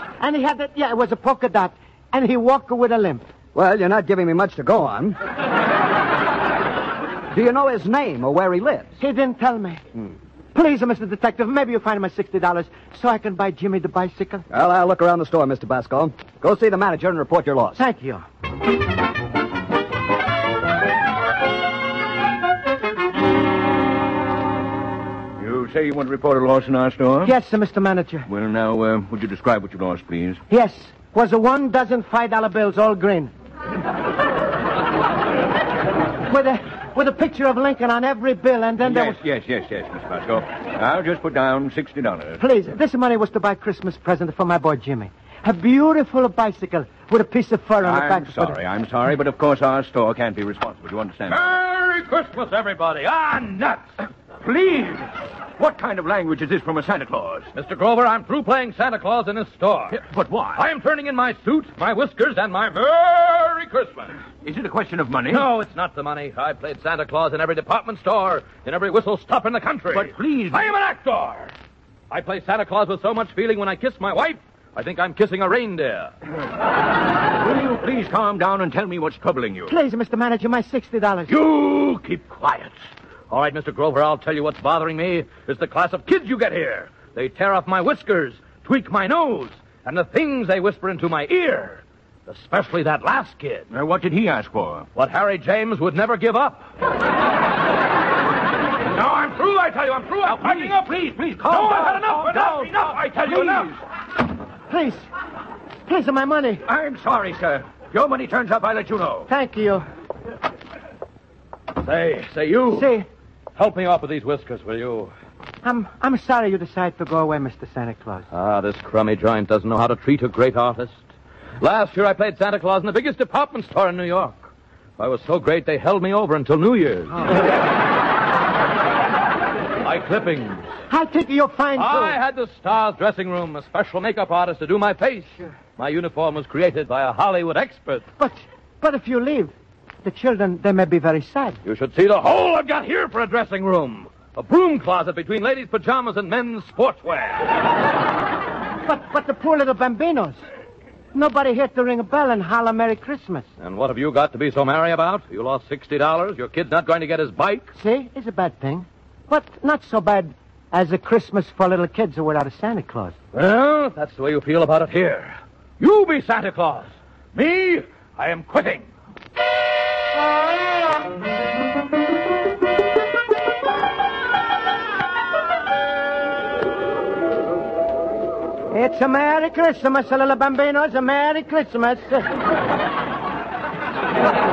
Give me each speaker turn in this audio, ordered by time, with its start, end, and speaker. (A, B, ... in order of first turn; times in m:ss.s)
0:00.2-0:03.2 A
0:03.5-0:05.2 B
0:07.3-0:08.9 B
0:09.0-0:09.8 A
0:10.5-0:14.4 A
0:14.5-0:17.8 B
0:17.8-0:18.2 A
0:25.4-0:27.3 C
0:27.2-0:28.3 A
0:28.3-0:30.4 C
0:30.5-0:33.3 A
0:36.3-0:39.2 A
0:38.8-0:42.4 C
0:42.4-0:48.6 A
0:47.8-0:51.4 C
0:51.3-0:53.9 D
0:54.4-0:57.5 C
0:57.6-1:04.2 D
0:59.9-1:00.6 C
1:04.4-1:05.5 C
1:05.3-1:11.5 D
1:09.9-1:10.7 C
1:12.1-1:16.1 D
1:17.4-1:19.7 C
1:19.7-1:21.3 A
1:21.3-1:22.7 D
1:23.3-1:33.7 D
1:33.7-1:34.9 C
1:35.0-1:36.7 D
1:39.0-1:43.7 D
1:40.2-1:43.8 C
1:44.7-1:45.0 A
1:45.9-1:46.6 A
1:46.7-1:49.3 C
1:49.3-1:49.8 A
1:51.8-1:52.9 D
1:52.7-1:53.1 A
1:53.6-1:55.1 D
1:55.6-1:58.3 A
1:58.3-2:01.0 D
2:01.6-2:07.3 D
2:09.8-2:10.7 D
2:10.9-2:12.2 A
2:11.8-2:18.0 D
2:18.2-2:19.5 A
2:20.0-2:21.6 A
2:21.6-2:27.5 D
2:28.8-2:30.4 A
2:31.1-2:33.5 A
2:33.6-2:37.7 D
2:37.8-2:43.2 A
2:43.3-2:48.9 D
2:58.7-3:02.3 A